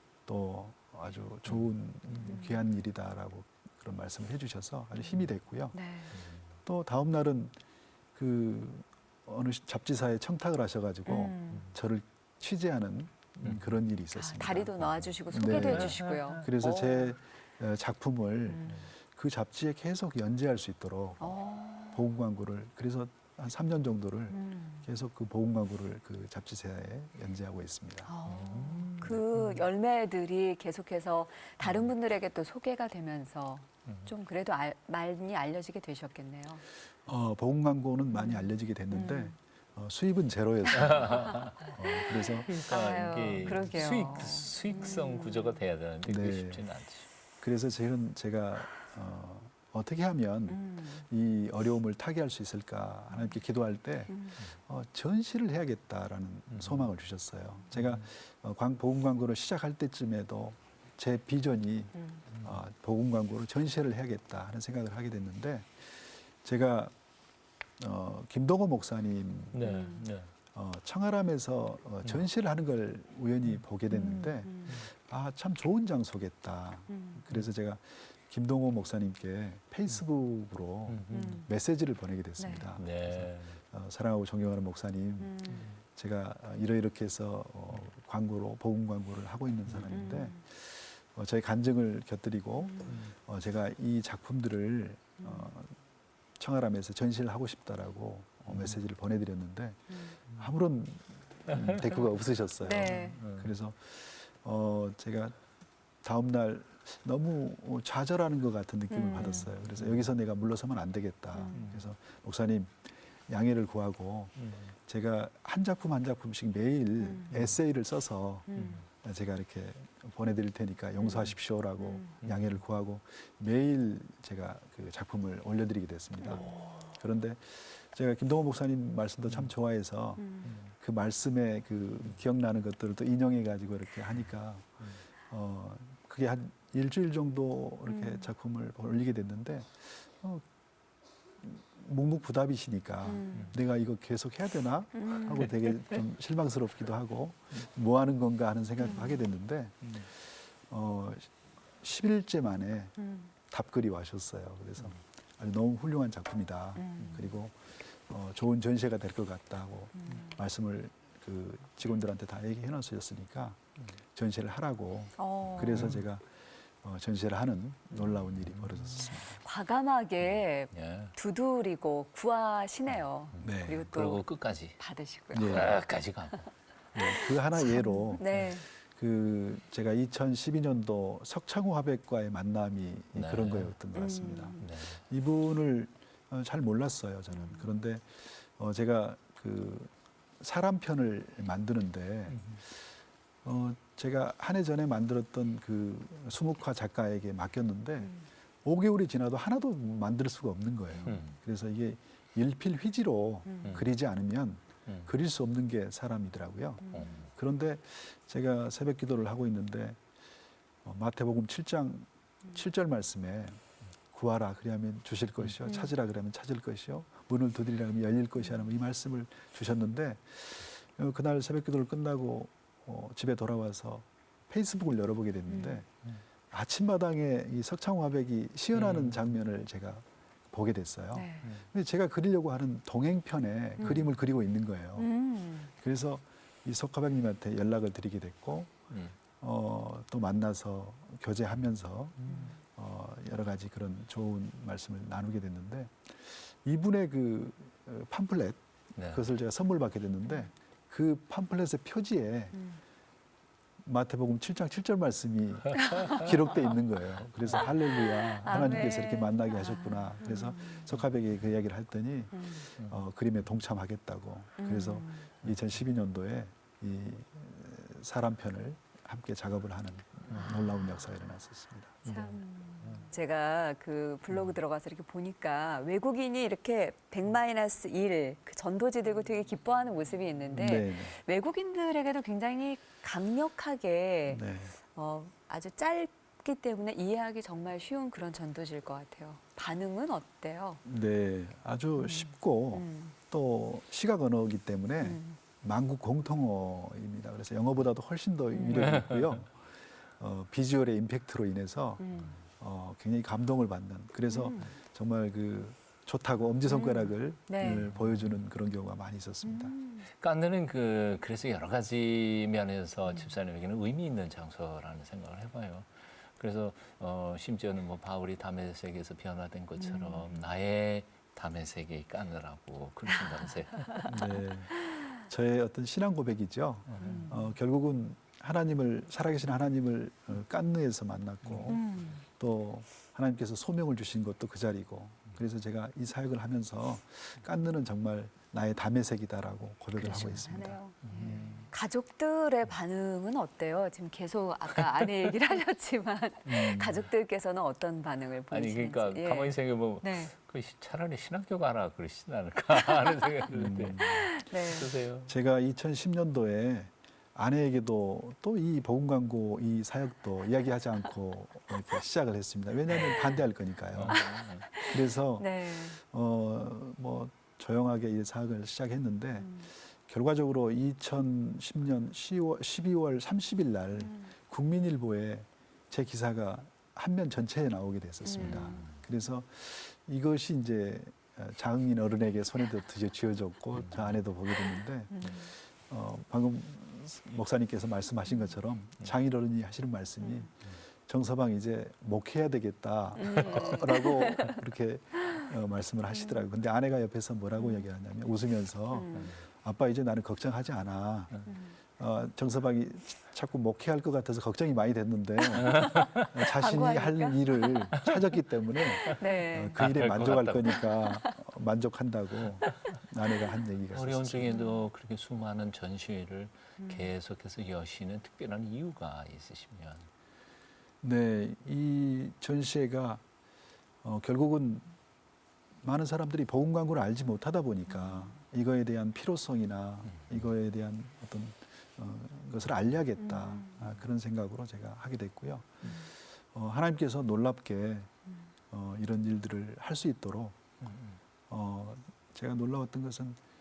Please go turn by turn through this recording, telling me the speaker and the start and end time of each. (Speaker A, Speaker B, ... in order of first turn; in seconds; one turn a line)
Speaker A: 0.3-5.8
Speaker B: 1.5-2.4
Speaker C: 2.2-2.6
Speaker C: 5.7-6.2
Speaker B: 6.1-6.4
Speaker A: 6.6-7.6
Speaker A: 8.2-21.4
Speaker C: 11.1-11.7
Speaker B: 13.4-13.8
Speaker C: 14.1-17.1
Speaker B: 15.4-16.4
Speaker C: 18.5-18.9
Speaker C: 21.2-22.1
Speaker A: 21.9-28.1
Speaker C: 24.3-24.9
Speaker C: 28.1-36.6
Speaker B: 28.2-29.2
Speaker A: 37.0-42.6
Speaker C: 38.1-39.4
Speaker B: 40.8-47.1
Speaker C: 40.8-45.6
Speaker A: 46.0-46.7
Speaker A: 47.4-66.9
Speaker C: 50.5-51.1
Speaker C: 54.1-54.4
Speaker B: 56.5-56.9
Speaker C: 62.0-62.2
Speaker B: 62.3-62.6
Speaker A: 67.8-69.7
Speaker B: 69.5-70.3
Speaker C: 69.6-70.1
Speaker A: 70.5-95.8
Speaker C: 73.9-74.8
Speaker C: 76.9-77.2
Speaker B: 80.9-81.5
Speaker C: 81.1-81.5
Speaker C: 82.4-82.7
Speaker B: 82.8-83.6
Speaker C: 85.2-85.7
Speaker B: 85.5-85.8
Speaker C: 89.9-90.4
Speaker C: 92.6-93.0
Speaker B: 92.9-93.1
Speaker C: 95.2-95.5
Speaker A: 96.4-105.4
Speaker B: 98.5-98.8
Speaker C: 99.9-100.2
Speaker C: 102.6-103.2
Speaker B: 102.9-103.5
Speaker A: 106.0-140.4
Speaker C: 108.9-109.6
Speaker B: 109.6-110.1
Speaker C: 111.3-111.7
Speaker B: 111.5-111.9
Speaker B: 114.4-114.7
Speaker C: 117.0-117.4
Speaker C: 118.5-118.8
Speaker B: 118.5-118.8
Speaker C: 121.0-122.2
Speaker B: 122.2-122.6
Speaker C: 126.2-126.5
Speaker B: 126.3-126.9
Speaker C: 130.2-130.6
Speaker B: 130.4-130.7
Speaker C: 137.9-138.3
Speaker A: 141.4-151.3
Speaker C: 143.0-143.6
Speaker C: 144.9-145.8
Speaker C: 148.8-149.2
Speaker A: 151.8-153.0
Speaker C: 153.0-153.3
Speaker A: 153.5-163.6
Speaker C: 156.8-157.3
Speaker C: 160.0-160.4
Speaker A: 164.1-169.4
Speaker C: 165.2-165.9
Speaker B: 165.7-166.0
Speaker C: 169.4-176.4
Speaker B: 170.2-171.2
Speaker B: 172.9-174.8
Speaker A: 173.4-173.9
Speaker A: 175.3-175.8
Speaker B: 175.4-176.5
Speaker A: 176.9-210.0
Speaker C: 177.1-178.7
Speaker B: 183.2-183.8
Speaker C: 183.9-184.7
Speaker B: 184.6-185.0
Speaker C: 187.3-187.7
Speaker B: 192.3-192.6
Speaker B: 201.0-201.4
Speaker C: 203.5-203.8
Speaker B: 203.6-203.9
Speaker B: 204.9-205.1
Speaker C: 206.8-207.1
Speaker B: 206.9-207.3
Speaker A: 210.8-213.6
Speaker A: 214.1-225.9
Speaker C: 215.7-215.9
Speaker C: 225.5-225.8
Speaker A: 226.5-235.1
Speaker B: 228.7-229.3
Speaker C: 231.1-231.5
Speaker C: 233.8-234.1
Speaker C: 235.0-235.7
Speaker A: 235.8-238.8
Speaker B: 238.9-239.2
Speaker A: 239.4-252.6
Speaker B: 242.2-242.5
Speaker C: 242.2-242.6
Speaker B: 249.0-249.3
Speaker C: 252.5-252.8
Speaker A: 253.8-272.0
Speaker C: 255.8-256.2
Speaker C: 257.6-261.0
Speaker C: 262.3-262.7
Speaker C: 264.6-265.3
Speaker B: 272.1-273.1
Speaker C: 272.1-290.8
Speaker A: 280.5-281.1
Speaker A: 284.3-284.8
Speaker A: 290.9-309.7
Speaker C: 292.0-293.2
Speaker C: 295.0-295.4
Speaker C: 298.5-299.0
Speaker B: 299.0-299.3
Speaker C: 302.0-302.4
Speaker C: 304.3-304.7
Speaker C: 306.7-307.9
Speaker B: 307.6-308.3
Speaker C: 309.4-310.1
Speaker B: 310.1-324.3
Speaker C: 319.8-320.4
Speaker A: 324.0-341.5
Speaker B: 326.9-327.3
Speaker C: 327.0-327.5
Speaker B: 331.4-332.1
Speaker C: 331.7-332.2
Speaker C: 340.0-350.3
Speaker B: 341.0-341.7
Speaker B: 346.5-347.0
Speaker B: 348.5-355.3
Speaker A: 353.5-354.4
Speaker C: 354.0-354.9
Speaker A: 355.2-401.4
Speaker B: 363.9-364.7
Speaker C: 364.1-366.0
Speaker C: 369.4-369.7
Speaker C: 374.0-374.3
Speaker C: 378.2-378.9
Speaker B: 378.3-379.0
Speaker B: 383.8-384.2
Speaker C: 384.8-385.5
Speaker C: 390.2-390.5
Speaker C: 393.2-394.6
Speaker C: 396.1-396.5
Speaker C: 397.6-397.9
Speaker C: 398.9-399.4
Speaker C: 401.5-401.8
Speaker A: 402.0-414.6
Speaker C: 405.6-408.1
Speaker C: 409.0-409.9
Speaker B: 409.8-410.8
Speaker C: 410.6-411.4
Speaker B: 413.9-420.1
Speaker C: 414.5-414.8
Speaker C: 416.8-417.1
Speaker A: 421.0-423.2
Speaker A: 424.0-424.9
Speaker A: 425.8-438.1
Speaker C: 427.9-428.4
Speaker C: 433.2-433.9
Speaker A: 438.7-440.6
Speaker B: 440.8-441.2
Speaker A: 441.5-443.4